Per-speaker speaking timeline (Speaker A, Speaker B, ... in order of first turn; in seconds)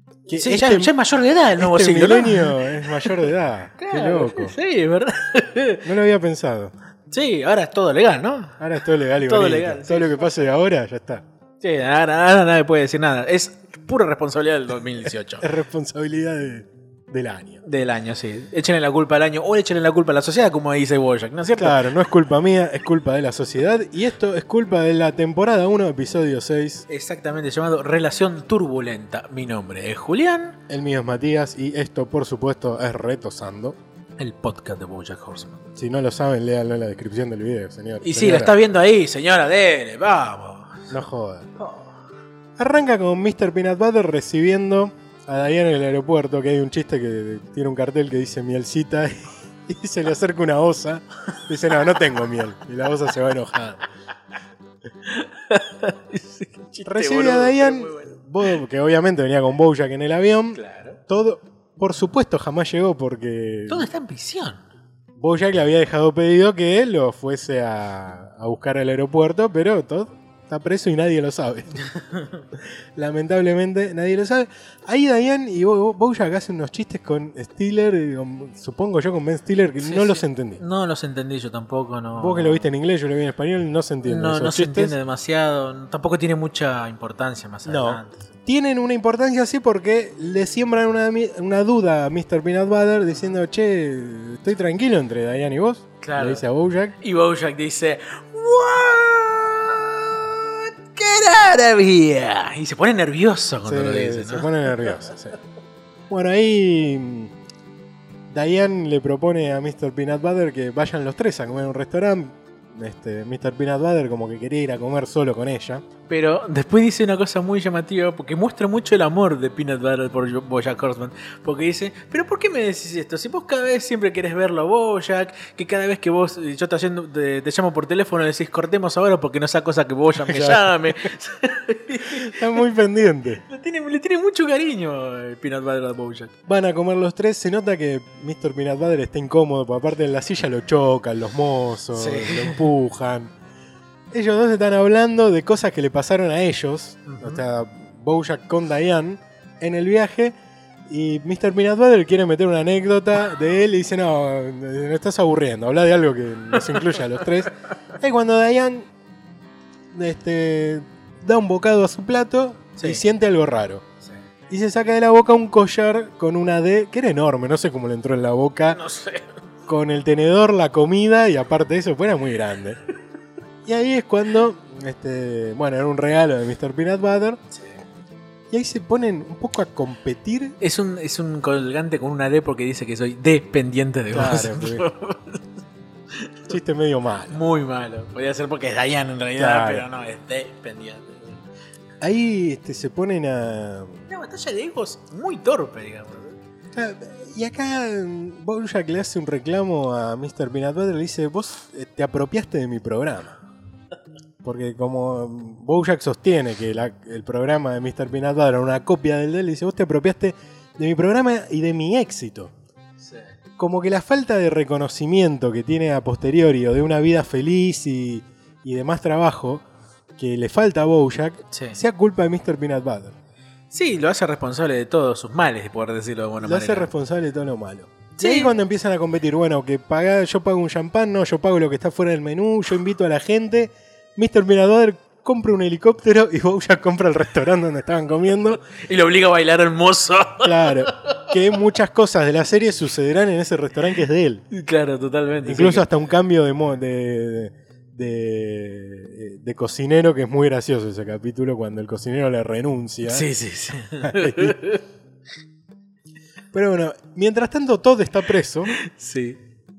Speaker A: 0.3-0.9, 1.6-4.5, 5.8-6.7, 8.6-11.2, 15.4-17.6, 21.6-26.9, 30.7-33.8, 35.8-38.5, 40.9-41.5, 42.6-53.9, 56.9-63.9, 65.2-71.8, 73.0-80.6, 82.2-85.0, 87.7-97.0, 103.7-105.4, 106.1-107.3, 108.3-115.8, 130.2-130.9, 132.1-133.4, 136.5-143.3, 144.1-150.3, 150.9-158.9, 159.9-163.8, 164.5-168.8, 169.7-172.8, 173.7-177.4, 178.5-180.6, 184.1-184.9, 186.5-187.4, 189.4-189.9, 192.0-194.1, 196.7-203.4, 204.4-212.5, 213.6-219.6, 220.2-223.2, 226.4-238.6, 240.4-244.4, 245.4-253.3, 254.0-254.6, 256.5-258.8
Speaker B: 0.3-5.9, 7.1-10.3, 11.6-15.5, 17.6-21.9, 26.9-30.6, 34.2-35.6, 38.0-40.9, 41.6-41.9, 55.0-58.2, 60.5-61.0, 63.7-64.6, 71.9-72.4, 79.8-82.7, 84.0-88.2, 96.0-96.5, 97.0-104.9, 116.1-132.6, 133.5-136.3, 141.9-142.7, 147.1-147.4, 168.7-169.3, 180.6-185.5, 186.2-186.5, 187.3-191.4, 194.1-196.4, 213.0-213.3, 221.5-221.8, 223.7-226.9, 228.2-228.5, 238.7-241.3, 244.5-245.9, 253.1-254.8, 258.7-259.4